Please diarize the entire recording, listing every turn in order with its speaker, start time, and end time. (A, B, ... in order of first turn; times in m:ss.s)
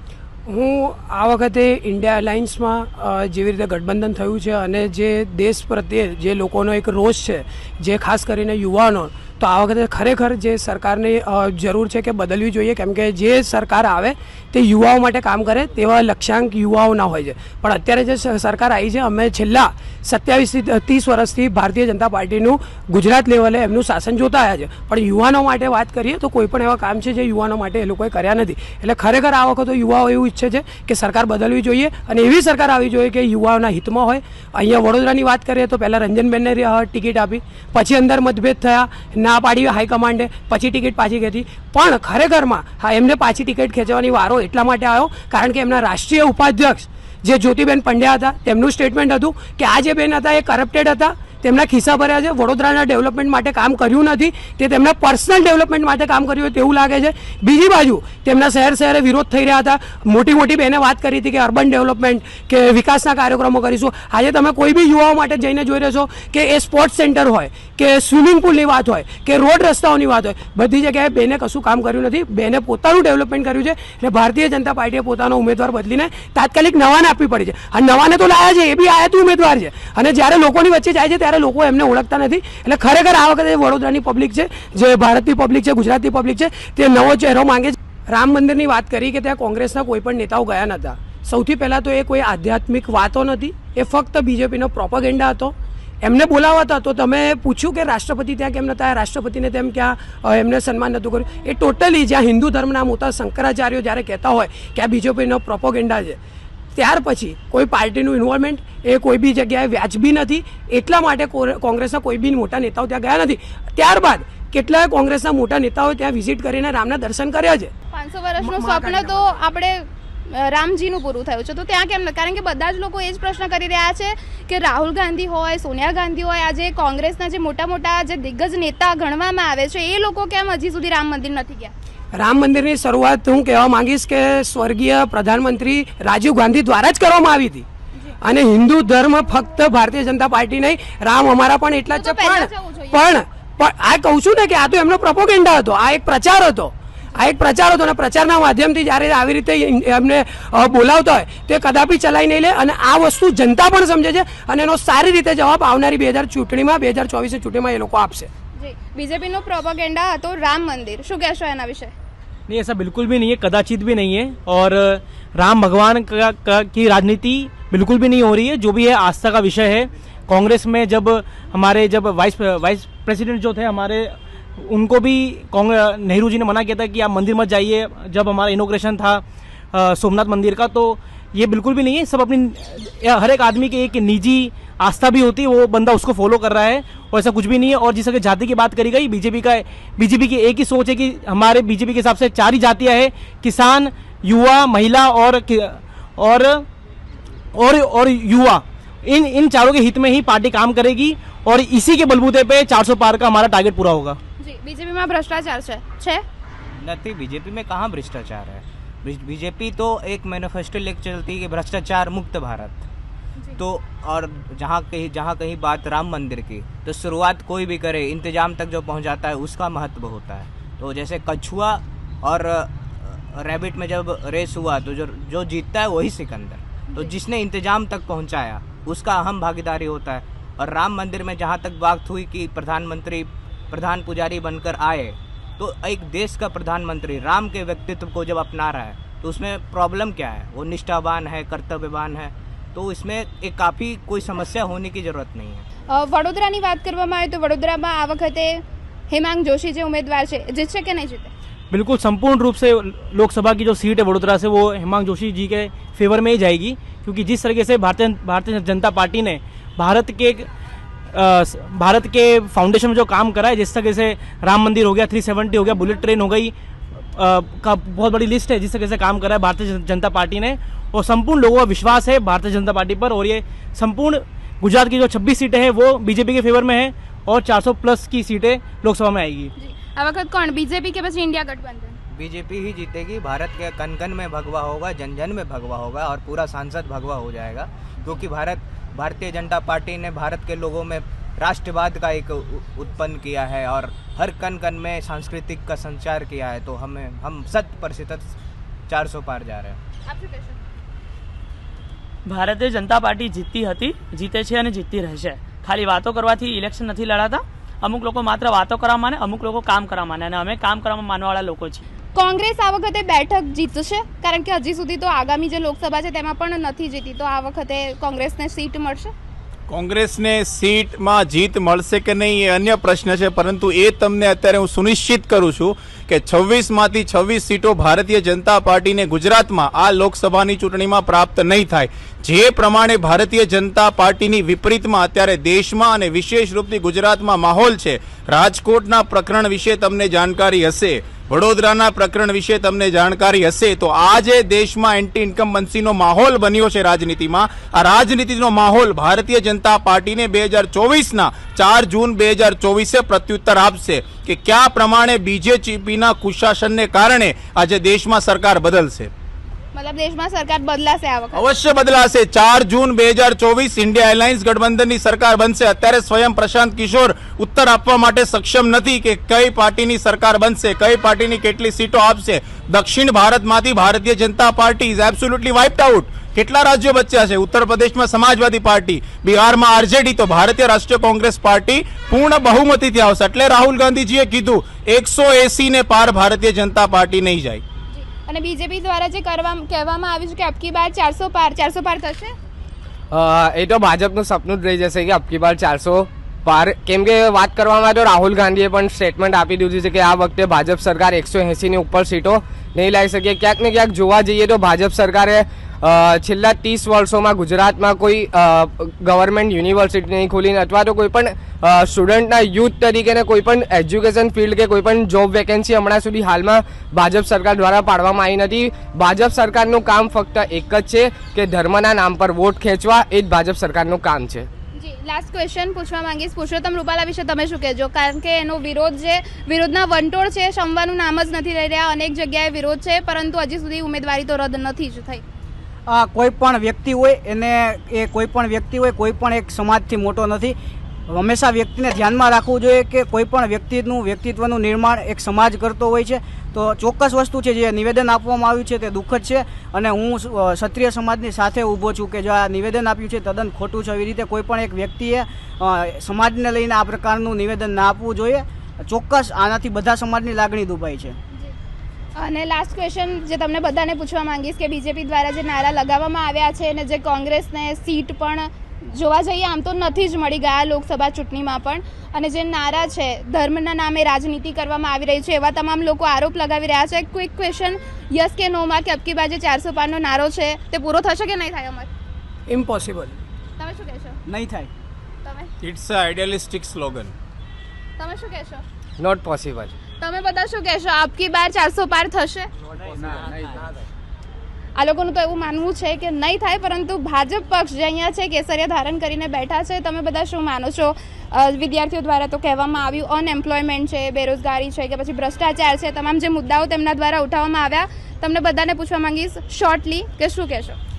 0:00.5-1:46.2 A
1:46.8-1:57.7 A
1:57.9-2:11.7 B
1:58.4-1:59.3 A
2:12.2-2:17.6 A
2:18.2-2:38.3 A
2:21.9-2:23.1 B
2:38.6-2:41.9 B
2:42.5-3:16.7 C
3:17.6-3:24.2 C
3:24.4-3:26.2 B
3:26.8-3:32.9 D
3:33.6-4:05.7 D
4:05.9-4:11.3 B
4:11.7-4:20.5 C
4:21.1-4:26.5 C
4:27.2-4:39.5 C
4:39.6-4:42.0 B
4:42.1-4:58.4 D
4:58.9-4:59.8 D
5:00.1-5:00.6 B
5:02.3-5:11.8 E
5:12.1-5:19.1 B
5:19.7-5:59.1 F
5:59.7-6:01.4 B
6:01.3-6:27.6 F
6:27.9-6:32.3 B
6:33.1-7:04.5 G
7:04.8-7:15.2 B
7:15.9-7:20.6 H
7:21.1-7:41.2 H
7:42.2-8:01.9 B
8:02.5-8:03.2 A
8:03.6-8:04.2 B
8:04.3-8:04.7 H
8:05.2-8:05.5 B
8:05.6-8:07.1 F
8:08.0-8:08.6 B
8:09.0-8:09.7 G
8:10.0-8:12.5 B
8:14.8-8:30.8 B